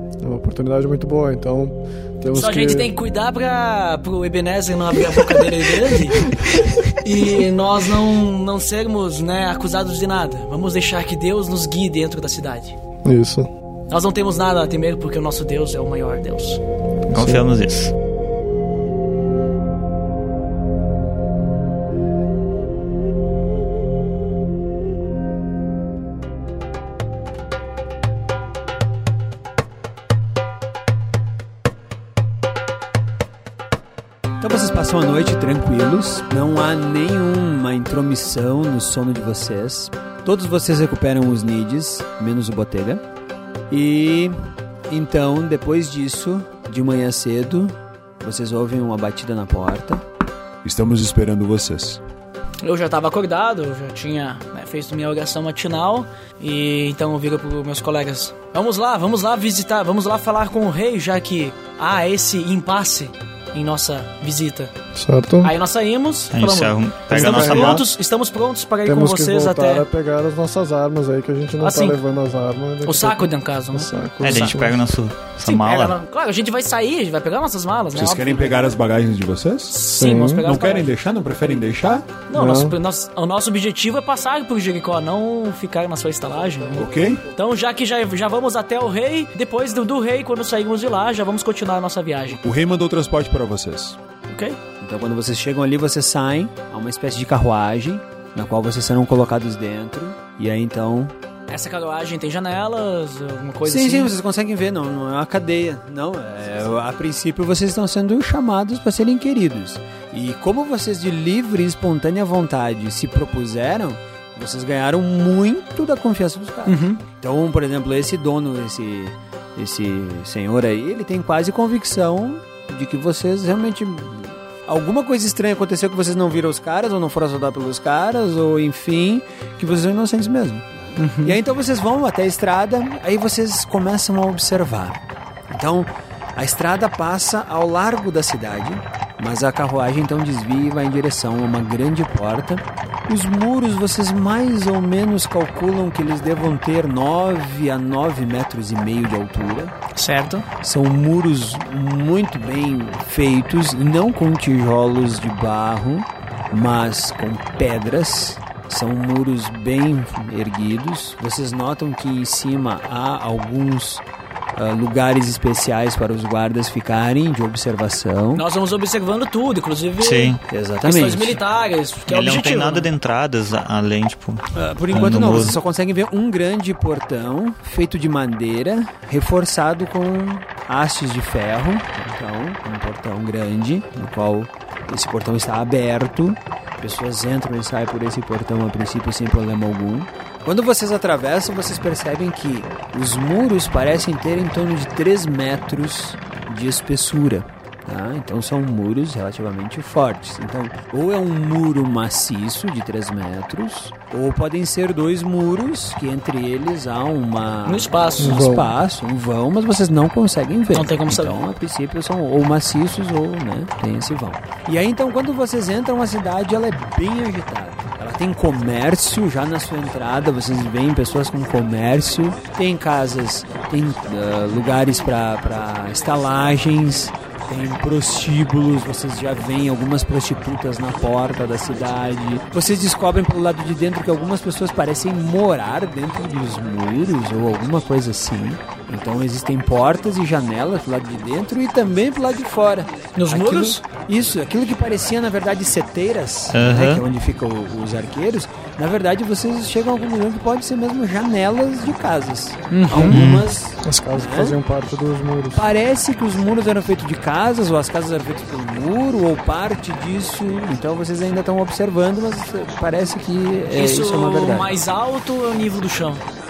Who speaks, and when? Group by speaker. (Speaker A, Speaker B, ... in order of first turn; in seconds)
Speaker A: 0.2-2.9, 13.1-13.5, 17.1-17.4, 65.0-65.5, 67.1-67.8, 68.8-74.8, 79.9-80.5, 82.3-82.7, 208.2-208.7, 253.8-255.6
Speaker B: 2.3-6.3, 7.0-12.7, 13.9-16.6, 52.6-64.7, 65.4-69.8, 71.6-72.0, 72.8-74.7, 75.4-78.6, 79.7-81.0, 82.2-92.4, 94.3-94.6, 101.5-104.1, 116.7-117.0, 131.0-131.4, 149.9-150.4, 168.3-172.9, 207.7-208.4, 210.7-211.4, 243.2-243.8, 252.7-253.2, 263.7-266.2
Speaker C: 17.1-17.9, 66.3-67.8, 74.2-76.0, 170.0-170.4, 172.1-175.6, 246.5-247.0, 253.1-253.5
Speaker D: 34.4-43.0, 43.7-50.0, 94.8-101.1, 103.7-149.7, 150.6-164.0, 164.6-168.4, 170.5-171.4, 174.6-254.6, 255.5-264.7
Speaker E: 50.6-52.0, 77.9-79.8, 80.4-82.1, 86.8-87.2, 92.4-94.0